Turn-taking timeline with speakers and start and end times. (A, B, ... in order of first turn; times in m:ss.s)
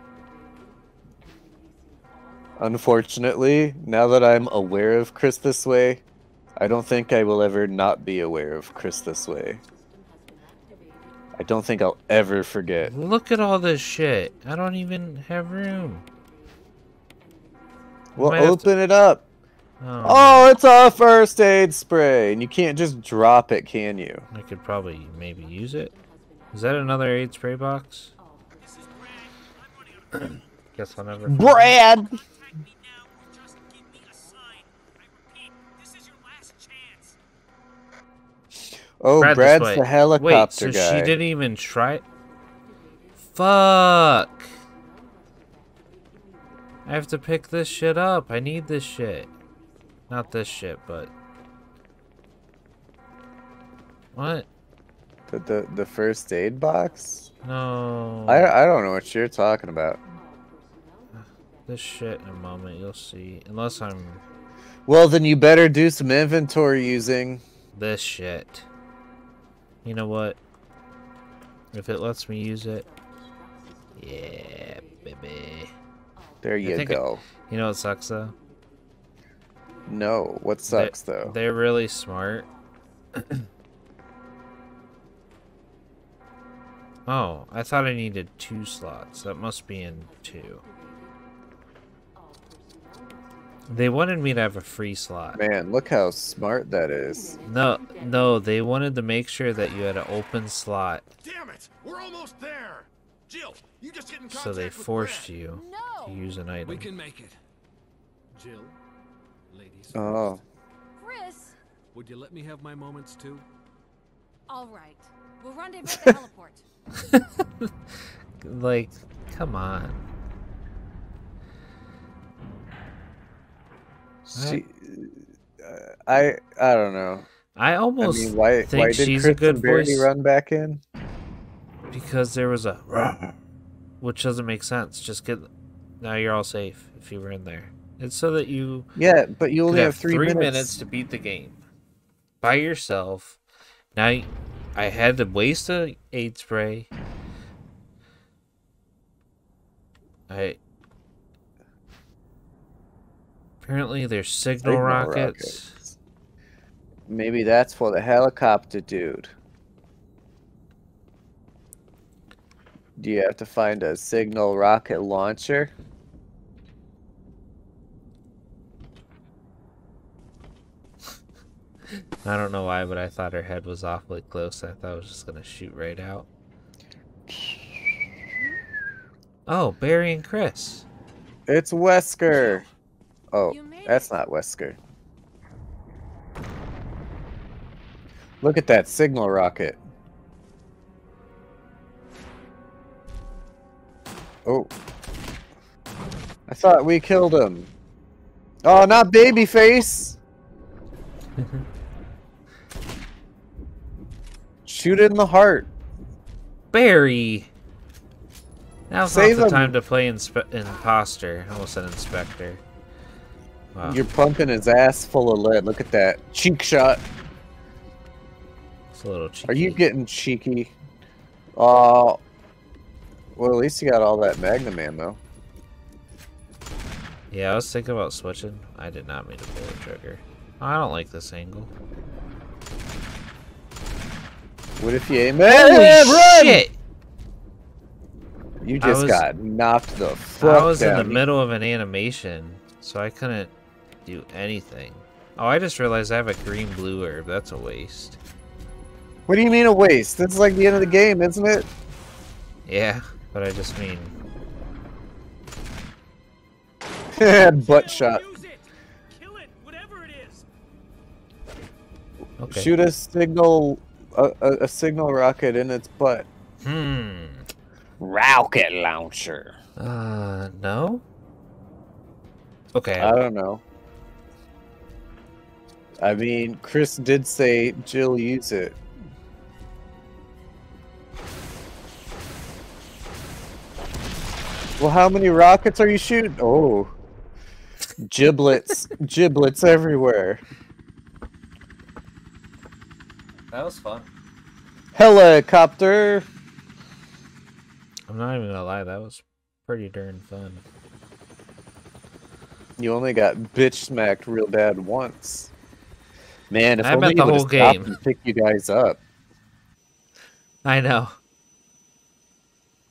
0:02.6-0:06.0 A
0:06.6-0:09.6 A
0:11.4-0:12.9 A
0:12.8-0:16.0 B
0:18.2-0:18.6 B
0:18.2-0:19.2 A
0:19.8-0:20.5 B
0:20.0-0:24.2 A
0:24.3-0:25.9 B
0:26.5-0:28.1 B
0:28.6-0:30.4 C
0:30.2-0:31.8 B
0:31.3-0:32.2 A
0:32.3-0:37.2 C
0:39.0-0:41.2 A
0:39.2-0:42.0 B
0:43.3-0:44.5 B
0:46.8-0:49.3 B
0:50.1-0:51.1 B
0:54.1-0:54.5 B
0:55.3-0:57.3 A
0:57.4-0:58.6 B
0:58.3-1:00.0 A
1:01.2-1:04.2 B
1:04.9-1:07.4 A
1:07.7-1:08.7 B
1:09.8-1:10.4 B
1:11.7-1:12.8 B
1:14.0-1:15.7 B
1:16.4-1:17.2 A
1:16.6-1:18.4 B
1:19.9-1:21.3 A
1:20.7-1:22.5 B
1:23.2-1:23.4 B
1:27.1-1:30.6 B
1:33.7-1:35.4 B
1:35.3-1:37.4 A
1:37.4-1:41.0 B
1:41.2-1:45.3 C
1:44.3-1:46.9 B
1:45.5-1:46.2 D
1:46.6-1:47.4 C
1:48.3-1:48.8 C
1:49.5-1:50.4 C
1:49.9-1:50.4 A
1:51.0-1:51.6 D
1:51.9-1:53.4 C
1:54.5-1:56.6 D
1:57.0-1:57.7 B
1:58.4-2:00.0 B
2:04.2-2:07.3 A
2:04.3-2:04.6 B
2:07.5-2:10.1 B
2:08.0-2:10.8 A
2:11.9-2:13.3 B
2:14.0-2:15.5 B
2:16.0-2:18.9 B
2:19.0-2:20.7 A
2:19.7-2:21.6 B
2:22.4-2:23.4 B
2:23.9-2:26.9 B
2:30.3-2:30.6 B
2:33.6-2:35.8 B
2:34.6-2:35.9 A
2:37.1-2:39.3 A
2:43.0-2:45.7 A
2:52.2-2:56.3 B
2:59.5-3:00.8 B
3:01.5-3:02.6 A
3:03.3-3:04.8 A
3:03.4-3:04.2 D
3:08.4-3:09.8 A
3:14.4-3:14.7 A
3:16.5-3:17.7 A
3:18.6-3:20.2 A
3:24.6-3:25.7 A
3:26.7-3:27.5 B
3:28.9-3:32.6 B
3:29.0-3:29.8 A
3:33.7-3:34.0 B
3:33.8-3:37.0 A
3:38.9-3:39.8 B
3:39.5-3:40.7 A
3:41.5-3:42.2 A
3:43.4-3:45.2 A
3:47.3-3:51.7 B
3:54.8-3:56.6 A
3:55.5-3:56.8 B
3:58.6-4:01.2 A
3:58.8-3:59.2 B
4:00.4-4:03.5 B
4:04.0-4:08.2 B
4:09.3-4:11.7 A
4:12.6-4:14.1 B
4:17.1-4:18.2 A
4:17.5-4:20.4 C
4:22.4-4:22.7 B
4:22.5-4:26.2 A
4:26.6-4:27.4 B
4:28.0-4:29.6 A
4:29.8-4:31.0 B
4:32.7-4:33.2 B
4:33.0-4:33.6 A
4:36.0-4:38.8 A
4:44.8-4:46.9 A
4:48.0-4:50.4 A
4:53.5-4:54.1 B
4:54.9-4:56.3 A
4:58.1-5:00.6 B
5:02.8-5:05.5 A
5:06.5-5:09.0 A
5:06.8-5:07.9 B
5:10.6-5:11.2 B